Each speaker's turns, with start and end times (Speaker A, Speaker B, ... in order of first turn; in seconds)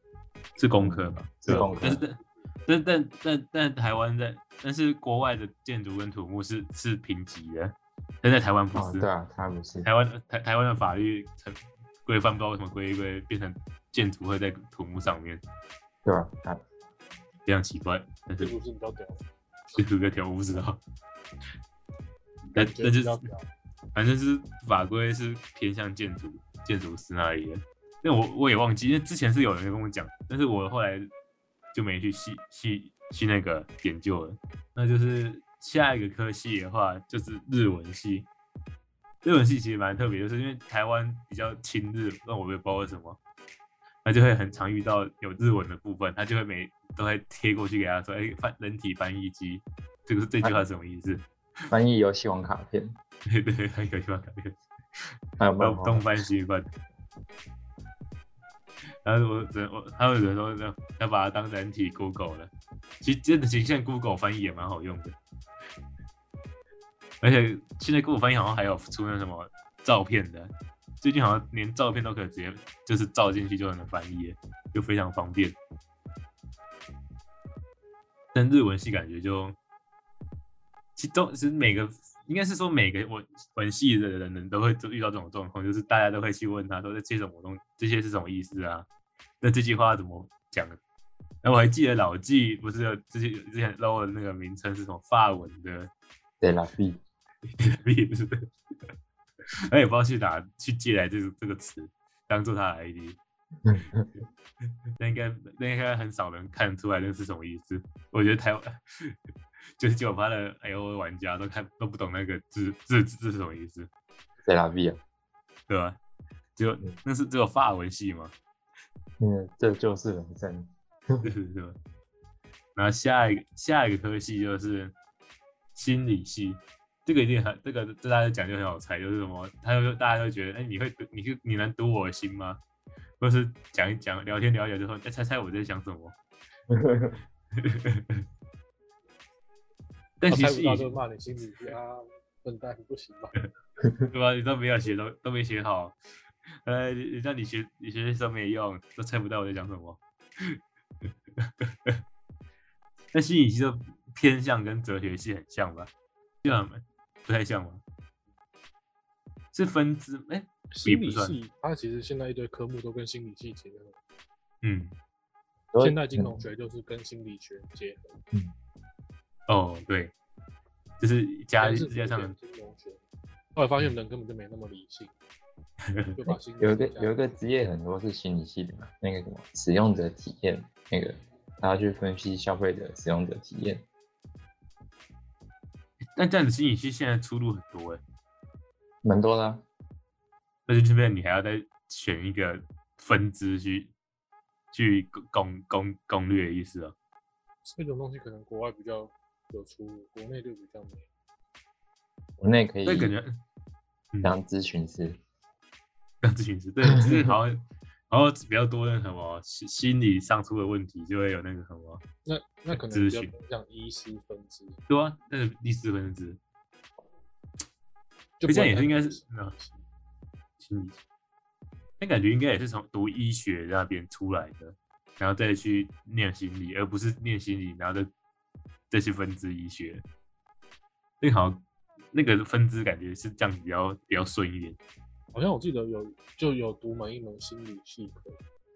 Speaker A: 0.6-9.1, 9.8-15.4, 17.4-18.5, 19.7-20.8, 22.5-23.3, 23.9-31.1, 31.7-38.3, 39.2-43.2, 44.0-51.2, 53.2-54.6, 55.6-56.7, 59.0-65.2, 67.2-75.6, 78.3-79.5, 81.0-88.9, 89.4-90.8, 91.4-95.9, 97.6-98.5, 99.7-103.2, 105.0-109.1, 109.8-113.9, 115.7-116.0, 116.5-118.3, 121.2-121.8, 122.7-124.9, 125.7-132.6, 133.2-136.1, 137.6-138.2, 140.2-140.9, 144.1-145.9, 146.6-150.6, 151.4-152.0, 153.1-155.9, 156.4-157.8, 159.5-161.4, 164.6-164.9, 169.5-170.1, 171.0-172.3, 175.9-176.2, 186.1-188.0, 190.7-193.9, 194.7-196.9, 202.8-203.4, 206.2-212.0, 212.7-213.3, 214.9-216.4, 218.5-219.5, 220.6-221.0, 222.0-228.1, 228.9-230.0, 231.2-231.6, 232.1-234.8
Speaker B: 0.8-2.0, 8.7-9.9, 16.0-16.6, 51.7-53.0, 55.4-56.0, 96.4-97.0, 103.6-104.1, 114.4-115.0, 119.2-121.3, 136.7-137.2, 165.7-166.4, 176.6-183.8, 189.0-189.6, 202.4-203.1, 204.2-205.2, 206.9-207.3
Speaker C: 1.5-2.0, 18.4-19.2, 22.5-23.5, 140.3-143.4, 160.7-164.0, 165.8-168.2, 171.6-173.0, 173.5-175.1, 176.2-177.1, 197.6-201.1, 212.2-214.8, 218.4-219.8, 235.3-238.4